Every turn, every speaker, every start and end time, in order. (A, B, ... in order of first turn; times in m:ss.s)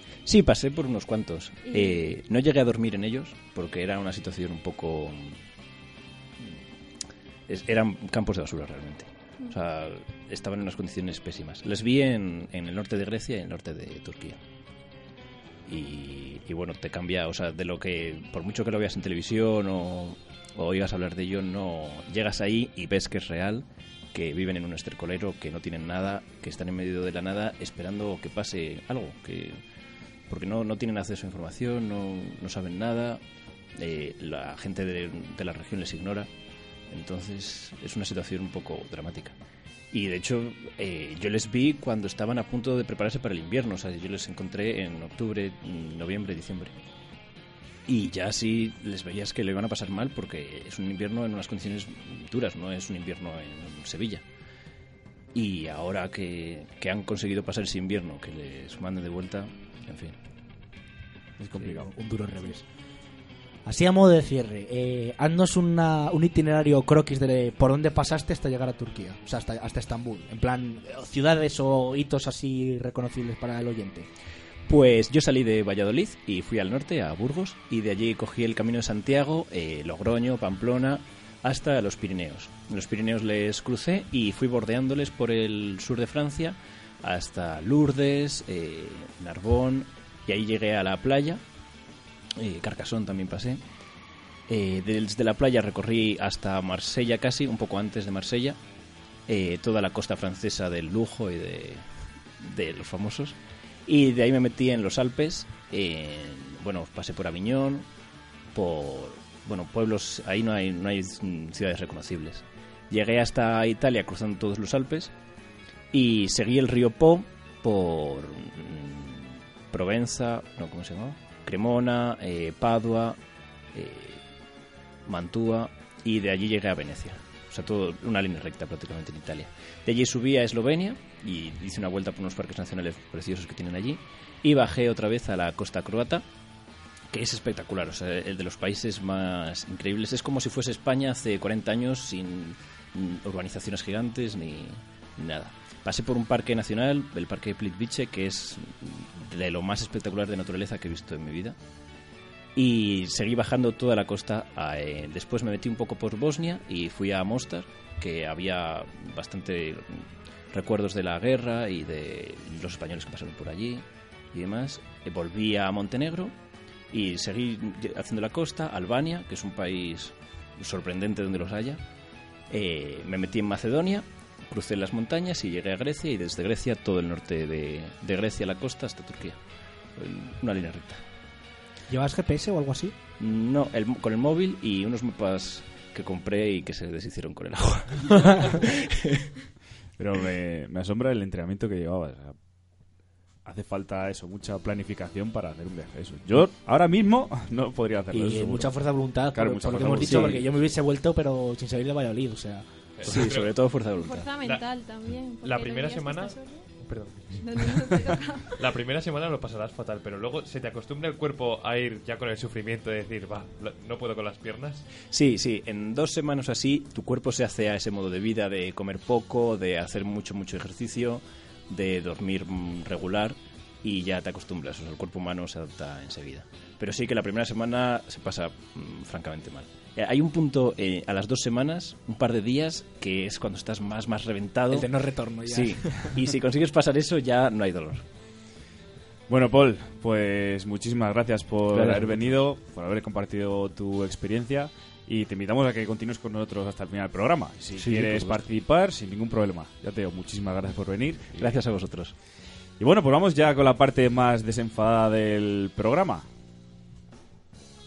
0:00.3-0:05.4 A
0:01.6-0:02.0 B
0:07.5-0:14.4 A
0:15.7-0:29.6 A
0:30.3-0:33.2 A
0:33.8-0:36.3 A
0:36.9-0:39.3 A
0:39.9-0:46.8 A
0:47.9-0:54.2 A
0:55.3-1:00.2 A
1:01.4-1:01.9 C
1:01.6-1:02.6 D
1:03.7-1:14.1 D
1:14.7-1:31.4 A
1:32.4-1:33.6 A
1:34.5-1:38.6 A
1:39.3-1:41.9 A
1:42.4-1:47.9 A
1:48.5-1:55.1 A
1:55.9-2:03.2 A
2:03.7-2:04.2 A
2:05.1-2:16.2 A
2:17.1-2:31.6 A
2:32.6-2:46.4 A
2:46.9-2:51.8 A
2:52.5-2:59.4 A
3:00.0-3:01.0 A
3:01.9-3:03.0 D
3:03.2-3:09.2 A
3:08.2-3:08.6 D
3:10.0-3:12.4 C
3:13.4-3:18.7 C
3:18.1-3:22.7 D
3:19.3-3:20.6 C
3:19.8-3:20.4 A
3:23.0-3:23.6 E
3:23.0-3:24.3 A
3:24.0-3:26.7 B
3:25.4-3:27.3 E
3:27.4-3:28.5 B
3:28.6-3:34.8 E
3:35.1-3:54.9 A
3:54.7-3:56.2 D
3:55.5-3:58.0 A
3:59.3-4:11.6 C
4:01.7-4:02.4 A
4:07.8-4:08.4 A
4:11.4-4:12.1 A
4:12.8-4:16.2 C